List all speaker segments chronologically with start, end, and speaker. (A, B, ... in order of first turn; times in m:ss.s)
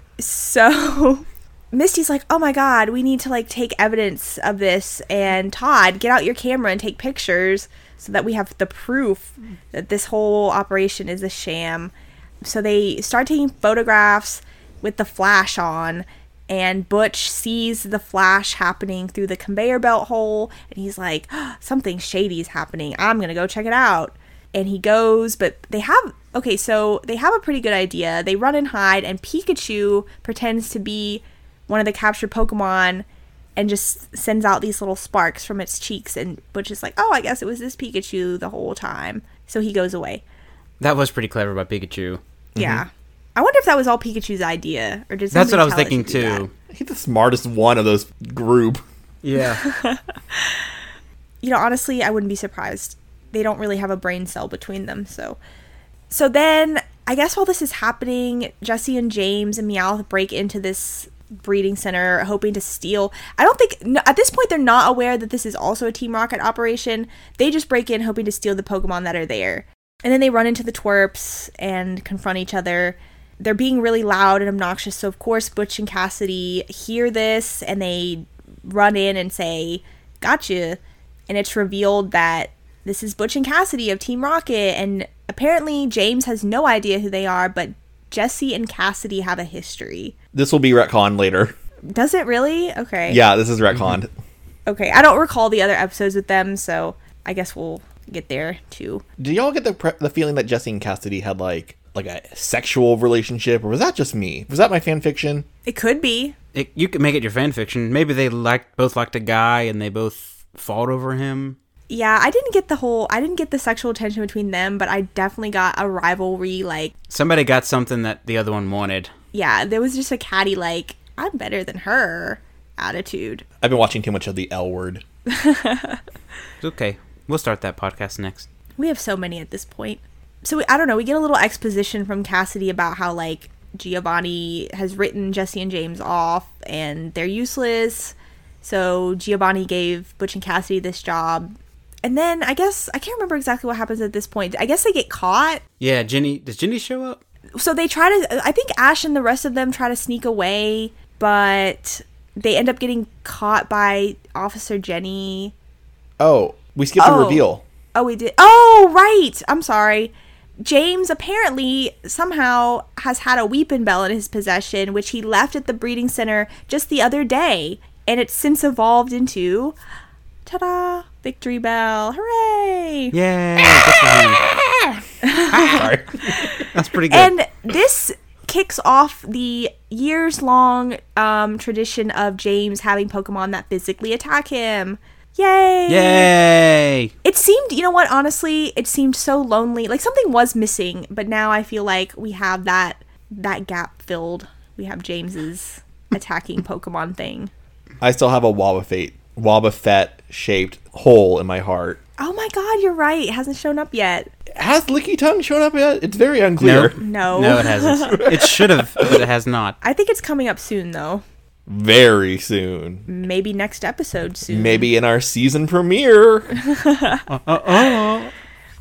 0:00.2-0:11.9 A
0:12.4-0:33.0 A
0:33.6-0:40.2 A
0:40.8-0:42.2 B
0:42.6-0:42.8 C
0:42.6-0:46.4 A
0:45.3-0:46.5 B
0:46.7-0:48.8 C
0:49.2-0:49.6 B
0:49.6-0:50.6 A
0:51.4-0:55.4 A
0:56.1-1:30.2 A
1:30.3-1:31.6 C
1:31.9-1:33.2 A
1:33.1-1:34.1 C
1:34.7-1:39.0 A
1:39.2-1:45.5 C
1:45.7-1:46.4 A
1:46.5-1:51.6 B
1:51.9-1:56.9 A
1:57.1-1:59.1 B
1:59.3-2:03.4 A
2:03.6-2:05.0 C
2:05.3-2:06.0 A
2:06.6-2:08.5 B
2:08.8-2:25.6 A
2:25.8-2:27.2 B
2:27.6-2:35.5 A
2:36.2-2:37.6 C
2:37.0-2:49.8 A
2:50.5-2:53.1 A
2:53.1-2:54.4 B
2:55.2-2:55.9 A
2:55.5-2:56.7 C
2:56.7-2:57.3 B
2:57.1-3:06.3 A
3:05.9-3:07.1 B
3:07.2-3:17.5 A
3:18.0-3:22.0 C
3:22.2-3:24.3 A
3:24.6-3:27.0 C
3:26.6-3:29.8 B
3:27.0-3:28.3 A
3:28.2-3:29.2 C
3:29.8-3:31.2 A
3:31.7-3:33.1 C
3:33.1-3:34.9 A
3:34.5-3:36.6 C
3:36.7-3:37.2 A
3:37.3-3:38.3 B